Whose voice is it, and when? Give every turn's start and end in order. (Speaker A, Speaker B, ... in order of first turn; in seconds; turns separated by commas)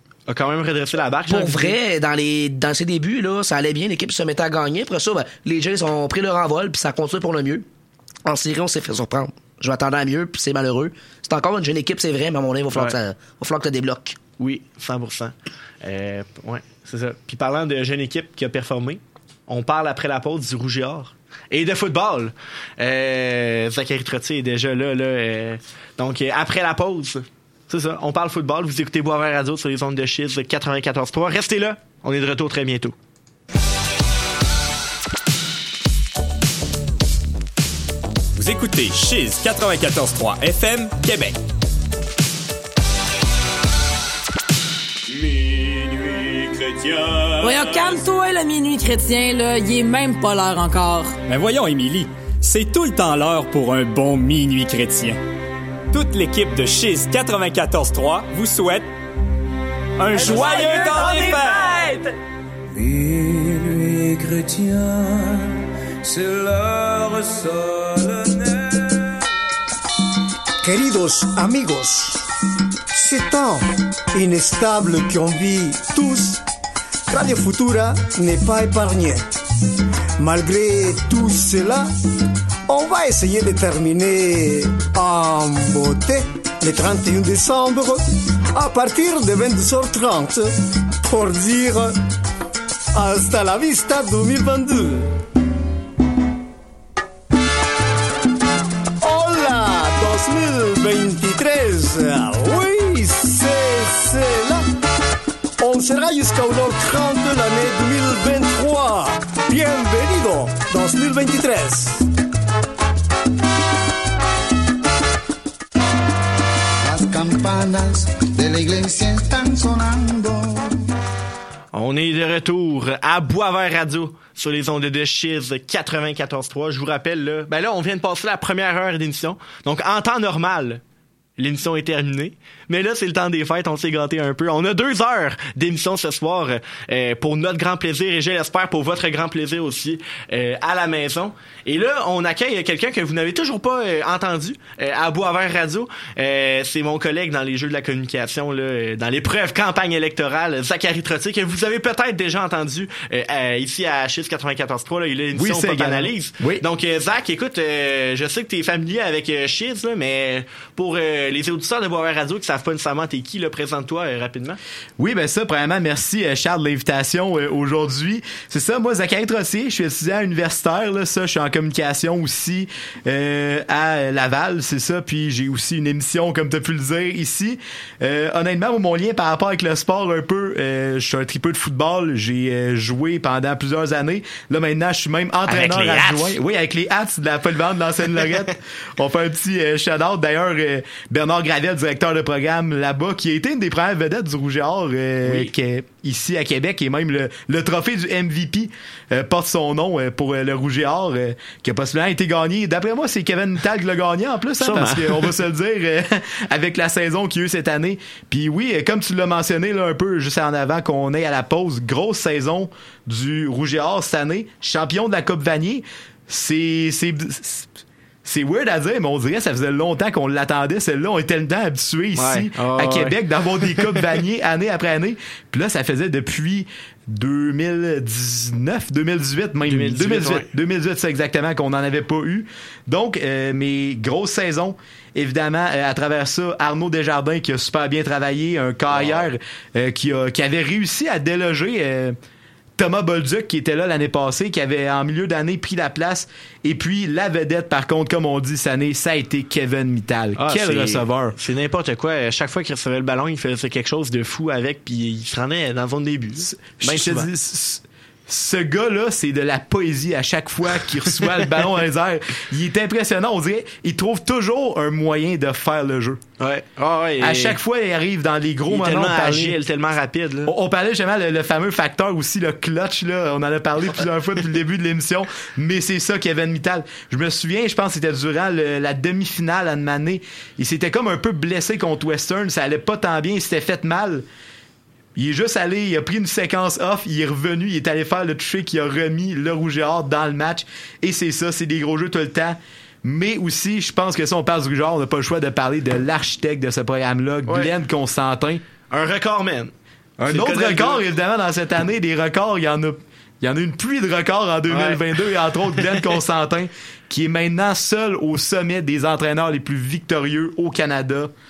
Speaker A: 0.3-1.8, Speaker B: 1.3-7.7, Speaker B: 8.2-14.2, Speaker A: 14.4-33.0, Speaker C: 38.4-41.4, Speaker A: 46.7-47.1, Speaker C: 47.4-47.8, Speaker D: 47.4-51.2, Speaker C: 51.3-55.2, Speaker C: 55.9-58.9, Speaker C: 60.0-61.9, Speaker E: 62.8-65.5, Speaker E: 66.0-68.6, Speaker E: 70.6-72.2, Speaker E: 72.9-76.4, Speaker E: 77.1-79.4, Speaker E: 80.2-81.9, Speaker E: 82.7-88.0, Speaker E: 88.5-90.5, Speaker E: 91.1-92.0, Speaker E: 92.9-95.1, Speaker E: 99.0-104.7, Speaker E: 105.6-112.0, Speaker F: 116.8-120.7, Speaker A: 121.7-130.8, Speaker A: 131.4-164.6, Speaker G: 155.3-156.6, Speaker G: 165.0-217.7, Speaker A: 185.5-186.4, Speaker A: 195.2-195.5, Speaker A: 204.6-205.4, Speaker G: 218.2-242.2, Speaker A: 222.2-224.0, Speaker A: 229.7-230.5, Speaker A: 238.9-239.3, Speaker G: 242.8-251.3, Speaker A: 250.4-257.3, Speaker G: 256.4-266.2, Speaker A: 266.4-267.6, Speaker G: 267.2-269.6, Speaker A: 268.7-270.5, Speaker G: 270.5-284.2, Speaker G: 285.2-298.6, Speaker A: 297.5-297.7, Speaker A: 298.9-301.1, Speaker G: 300.2-311.3, Speaker A: 304.7-305.0, Speaker A: 305.8-306.1